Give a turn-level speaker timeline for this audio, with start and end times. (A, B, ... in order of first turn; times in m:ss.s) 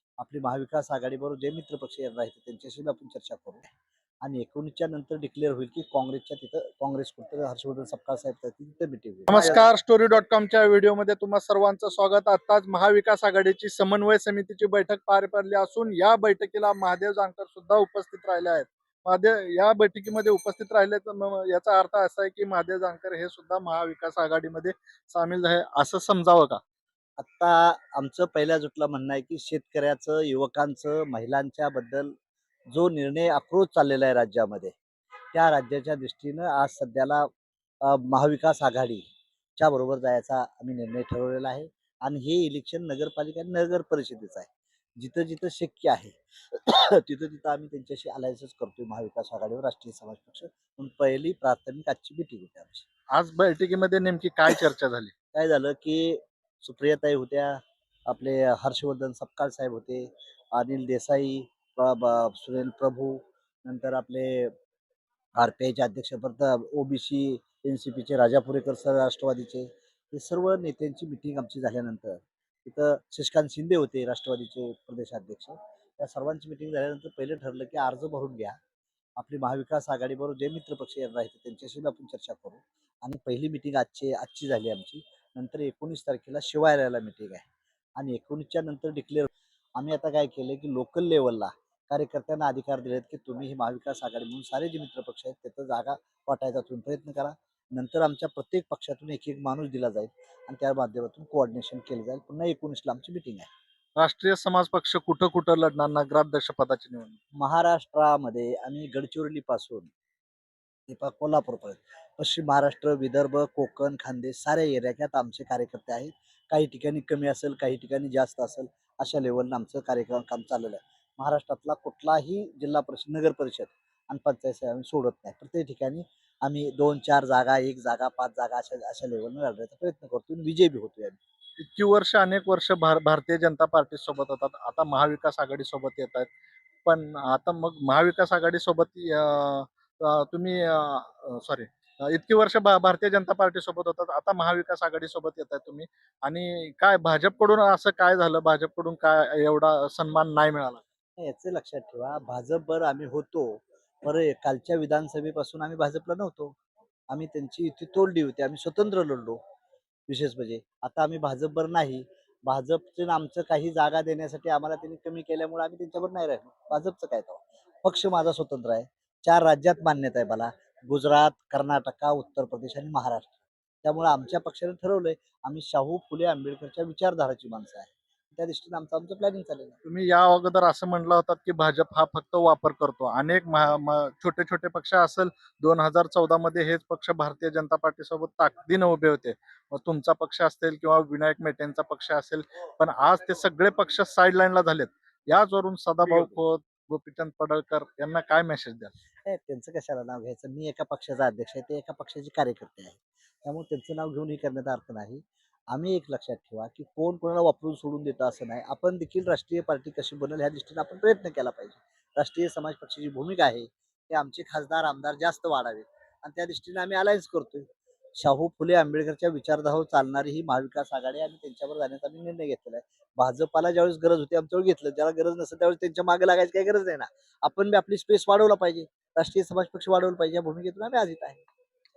0:00.2-0:03.7 A
0:04.2-0:09.6 A
0:09.3-0:26.6 B
0:27.2-0:32.1 A
0:32.7-0:34.8 A
0:35.3-0:37.3 A
0:37.8-0:39.0 A
0:39.6-0:52.9 A
0:53.1-0:55.1 B
0:55.3-1:04.5 A
1:05.3-1:18.6 A
1:19.2-1:27.4 A
1:28.0-1:43.5 A
1:44.0-1:47.2 B
1:47.4-1:49.9 A
1:50.9-2:11.2 A
2:11.6-2:16.3 B
2:16.8-2:30.8 B
2:31.2-2:36.6 A
2:37.1-2:39.4 A
2:40.1-2:59.8 A
2:59.8-3:18.9 B
3:16.1-3:16.4 A
3:19.2-3:51.4 A